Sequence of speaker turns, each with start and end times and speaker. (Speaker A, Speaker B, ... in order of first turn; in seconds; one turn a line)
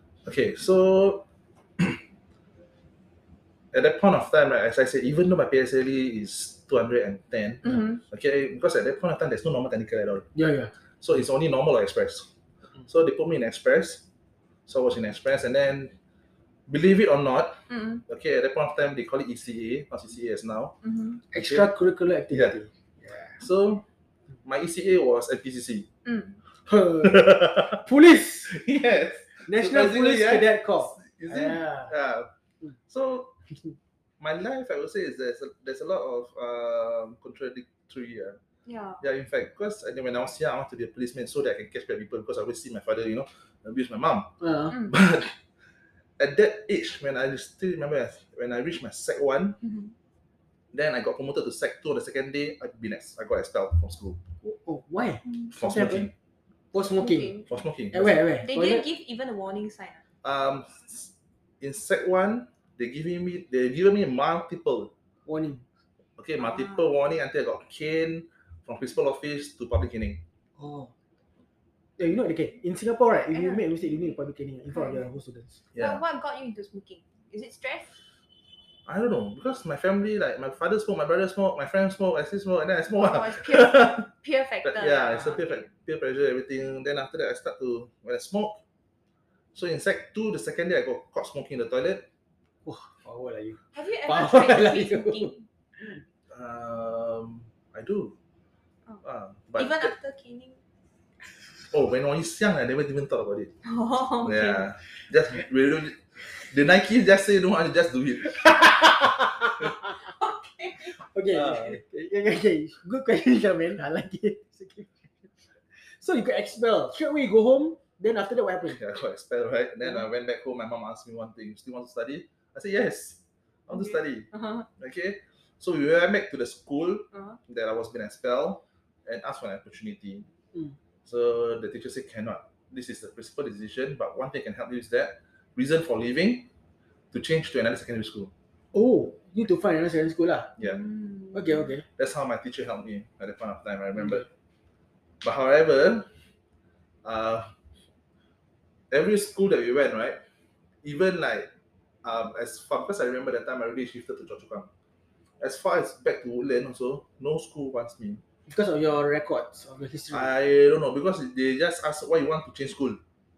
Speaker A: 0.2-1.2
Speaker A: 3.7-10.3
Speaker B: 7.6-8.0
Speaker C: 10.3-10.7
Speaker A: 11.0-12.3
Speaker A: 12.9-14.0
Speaker A: 14.7-15.9
Speaker A: 16.7-20.7
Speaker B: 17.7-18.0
Speaker B: 20.8-21.2
Speaker C: 21.3-23.4
Speaker A: 21.3-21.7
Speaker A: 23.4-23.8
Speaker A: 24.4-25.9
Speaker B: 26.0-26.4
Speaker C: 26.6-28.6
Speaker A: 27.1-27.7
Speaker A: 28.5-32.3
Speaker C: 29.4-31.9
Speaker A: 32.9-33.3
Speaker A: 34.2-38.4
Speaker B: 38.6-39.0
Speaker A: 39.0-45.3
Speaker C: 44.4-44.8
Speaker A: 46.2-49.6
Speaker B: 49.6-49.9
Speaker A: 50.7-54.2
Speaker C: 54.4-56.1
Speaker A: 55.5-56.1
Speaker C: 56.7-57.4
Speaker B: 56.8-57.5
Speaker A: 57.5-58.3
Speaker C: 57.9-58.8
Speaker B: 58.4-60.0
Speaker A: 60.2-64.9
Speaker C: 65.2-65.6
Speaker A: 66.2-70.2
Speaker B: 66.4-66.9
Speaker C: 70.6-70.9
Speaker C: 72.0-75.6
Speaker B: 73.3-73.9
Speaker B: 74.7-75.0
Speaker A: 75.7-76.0
Speaker B: 75.8-78.0
Speaker A: 78.8-84.1
Speaker B: 82.9-85.7
Speaker A: 84.6-88.6
Speaker A: 89.5-92.1
Speaker C: 92.6-96.0
Speaker B: 93.7-95.4
Speaker A: 96.3-98.1
Speaker A: 99.0-99.9
Speaker B: 99.5-100.6
Speaker A: 101.7-103.5
Speaker B: 103.6-104.6
Speaker A: 104.2-108.9
Speaker C: 108.5-109.7
Speaker B: 110.0-111.0
Speaker C: 111.0-118.8
Speaker A: 111.3-111.8
Speaker A: 118.7-130.3
Speaker B: 123.7-124.7
Speaker A: 131.1-136.5
Speaker A: 137.1-138.3
Speaker C: 138.7-140.5
Speaker B: 140.6-141.7
Speaker C: 141.3-141.8
Speaker A: 142.0-144.2
Speaker A: 145.2-146.1
Speaker A: 147.0-147.5
Speaker A: 148.9-150.2
Speaker A: 150.8-151.5
Speaker A: 152.0-154.7
Speaker A: 155.4-158.2
Speaker C: 158.5-160.3
Speaker A: 160.1-163.0